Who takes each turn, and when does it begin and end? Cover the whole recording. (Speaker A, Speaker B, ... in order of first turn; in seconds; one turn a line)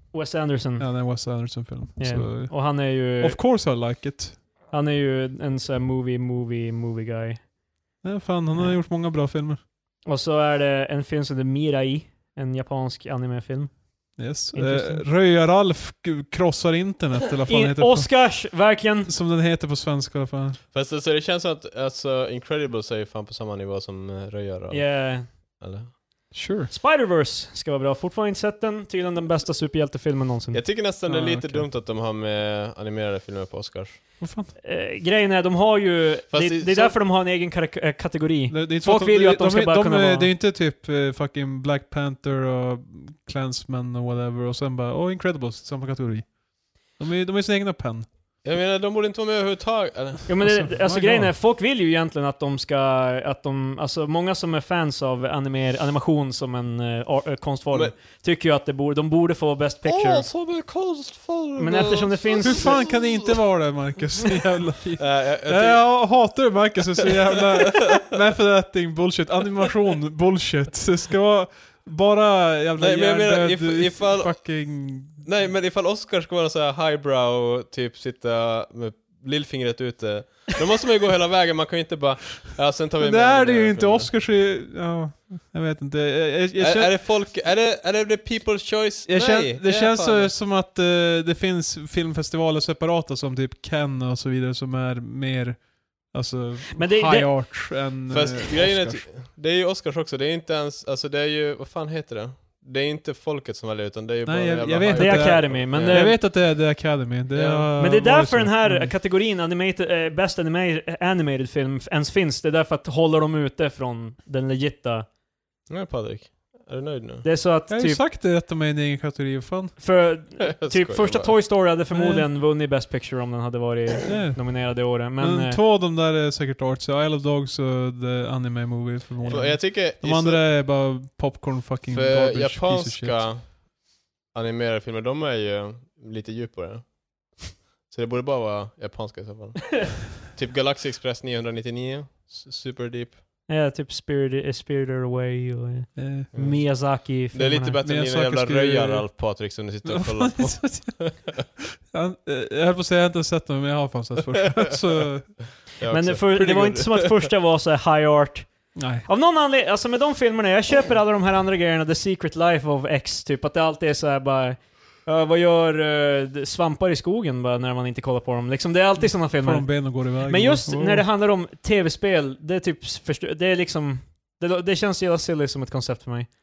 Speaker A: 0.1-3.4
Speaker B: 0.8-4.4
Speaker A: 4.7-7.5
Speaker B: 8.0-9.6
Speaker A: 10.0-15.1
Speaker B: 14.2-18.5
Speaker A: 17.5-19.1
Speaker B: 19.0-20.6
Speaker C: 20.7-25.9
Speaker A: 24.7-25.3
Speaker B: 26.3-26.7
Speaker A: 26.7-30.6
Speaker C: 30.5-34.0
Speaker B: 31.1-31.7
Speaker B: 34.2-34.5
Speaker A: 34.6-40.3
Speaker C: 36.3-37.0
Speaker B: 38.5-48.1
Speaker C: 48.4-50.2
Speaker A: 50.3-60.3
Speaker B: 50.4-51.3
Speaker C: 59.8-63.4
Speaker A: 61.6-62.8
Speaker B: 62.4-75.2
Speaker C: 65.0-66.3
Speaker C: 67.3-68.1
Speaker C: 72.8-84.1
Speaker B: 83.0-87.0
Speaker C: 86.6-90.3
Speaker B: 89.0-99.0
Speaker A: 96.8-97.8
Speaker C: 98.1-106.2
Speaker B: 104.2-108.9
Speaker A: 104.9-106.2
Speaker C: 107.3-107.7
Speaker A: 107.8-115.1
Speaker C: 115.7-117.2
Speaker A: 117.2-118.0
Speaker B: 117.7-119.8
Speaker A: 119.8-125.6
Speaker C: 120.5-121.3
Speaker B: 121.9-122.3
Speaker B: 124.0-133.3
Speaker A: 129.2-129.5
Speaker C: 129.2-130.4
Speaker C: 131.9-143.2
Speaker A: 143.5-147.8
Speaker B: 145.9-146.3
Speaker C: 146.3-151.3
Speaker B: 147.8-149.1
Speaker B: 149.8-155.4
Speaker C: 155.8-157.3
Speaker A: 155.9-176.3
Speaker B: 158.7-159.0
Speaker B: 169.0-171.1